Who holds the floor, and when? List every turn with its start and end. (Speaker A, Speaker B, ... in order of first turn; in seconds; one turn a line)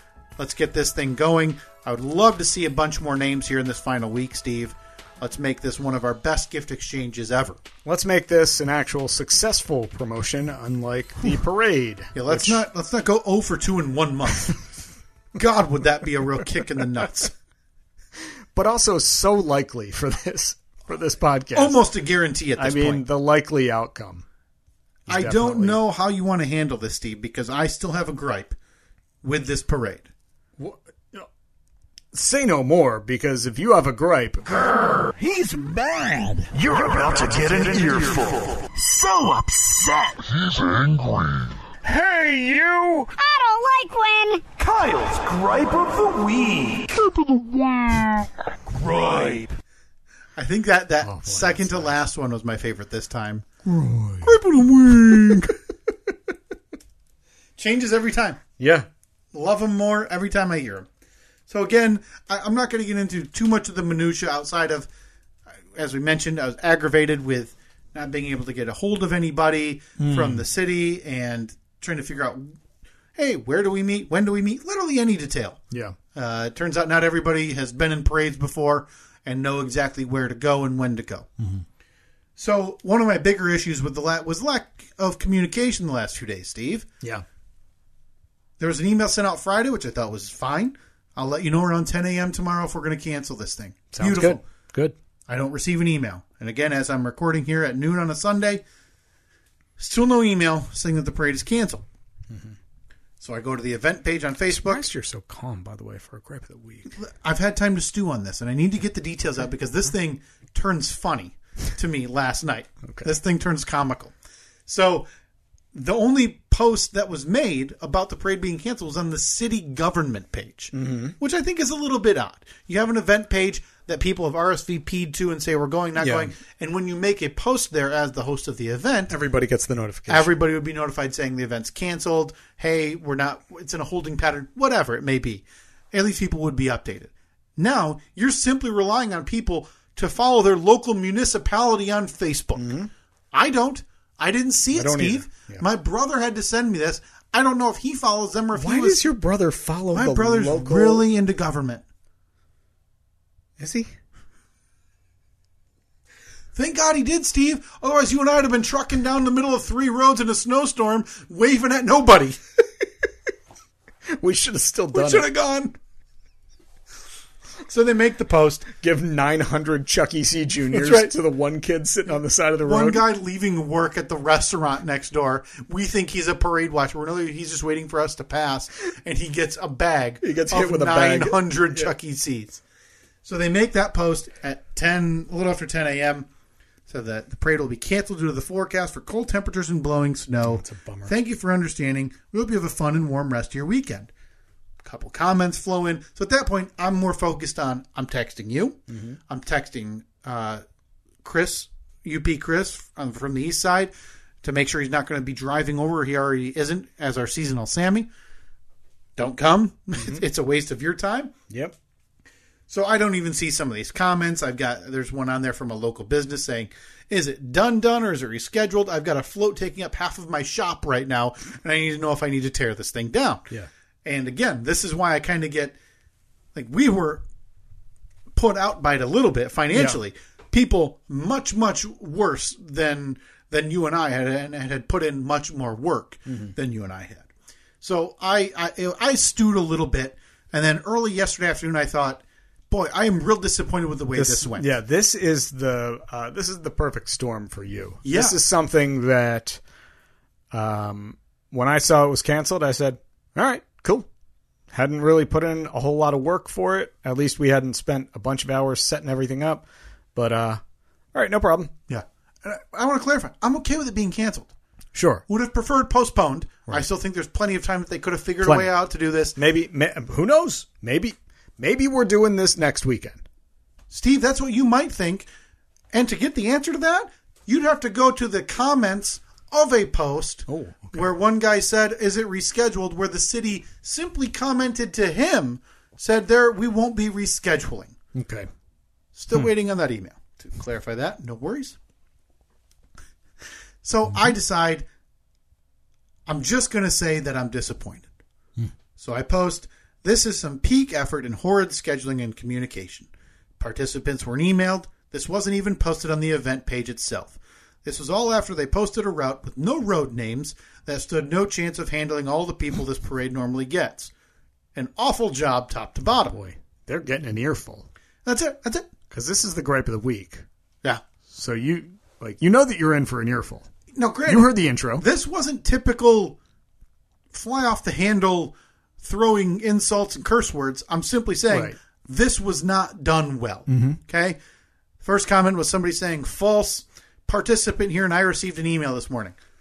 Speaker A: 0.4-7.6
Speaker B: 7.8-12.6
Speaker A: 12.1-14.6
Speaker A: 15.3-17.3
Speaker B: 18.5-21.8
Speaker A: 21.5-23.0
Speaker B: 22.6-24.2
Speaker B: 25.1-25.8
Speaker A: 25.1-28.6
Speaker A: 29.2-30.1
Speaker B: 30.6-31.3
Speaker B: 32.1-34.7
Speaker C: 35.1-49.5
Speaker A: 50.4-53.5
Speaker B: 51.0-51.9
Speaker B: 53.6-54.4
Speaker A: 54.2-55.5
Speaker B: 55.1-55.4
Speaker A: 57.6-58.4
Speaker B: 58.6-58.9
Speaker A: 59.3-60.9
Speaker A: 61.5-64.9
Speaker A: 65.7-72.6
Speaker B: 70.0-70.4
Speaker A: 73.2-75.6
Speaker A: 76.1-81.3
Speaker A: 82.4-86.9
Speaker A: 88.6-94.4
Speaker B: 93.9-94.9
Speaker A: 95.3-98.6
Speaker A: 99.8-101.8
Speaker A: 103.2-104.8
Speaker B: 104.5-106.9
Speaker A: 107.0-114.1
Speaker B: 112.8-113.1
Speaker A: 114.7-115.1
Speaker A: 115.7-129.1
Speaker B: 120.7-121.1
Speaker B: 126.0-126.3
Speaker B: 129.1-130.3
Speaker A: 130.1-142.7
Speaker B: 142.6-142.9
Speaker A: 143.3-149.0
Speaker B: 144.7-145.6
Speaker B: 148.6-151.0
Speaker A: 149.9-151.8
Speaker B: 153.6-153.9
Speaker A: 156.5-162.4
Speaker B: 164.2-165.2
Speaker A: 164.9-165.7
Speaker A: 167.7-168.7
Speaker B: 168.7-173.0
Speaker A: 170.7-171.1
Speaker A: 172.6-182.6
Speaker B: 180.2-181.9
Speaker A: 183.2-186.3
Speaker A: 186.9-194.1
Speaker B: 190.4-191.1
Speaker A: 194.8-200.6
Speaker B: 198.9-199.2
Speaker A: 201.2-203.9
Speaker A: 204.4-208.1
Speaker A: 209.2-211.3
Speaker B: 210.0-210.2
Speaker A: 212.7-223.5
Speaker A: 224.0-225.8
Speaker A: 226.5-227.2
Speaker A: 228.3-237.3
Speaker B: 229.7-230.0
Speaker B: 236.3-236.5
Speaker A: 237.8-244.7
Speaker B: 244.1-249.6
Speaker A: 248.0-248.4
Speaker B: 250.5-254.1
Speaker B: 254.7-260.6
Speaker B: 261.1-261.7
Speaker A: 261.9-264.5
Speaker B: 264.9-265.2
Speaker A: 265.3-269.4
Speaker B: 268.4-268.7
Speaker B: 269.4-273.2
Speaker A: 273.9-275.3
Speaker A: 275.9-287.9
Speaker B: 280.5-281.1
Speaker B: 288.1-288.5
Speaker A: 289.1-291.8
Speaker A: 293.8-294.9
Speaker A: 296.3-298.1
Speaker A: 298.9-314.1
Speaker A: 314.7-316.4
Speaker B: 316.3-317.9
Speaker A: 318.2-318.9
Speaker B: 319.1-320.4
Speaker B: 321.3-323.7
Speaker A: 323.9-326.4
Speaker B: 324.3-325.1
Speaker A: 327.3-334.4
Speaker B: 331.5-331.8
Speaker B: 333.7-334.0
Speaker A: 335.0-339.4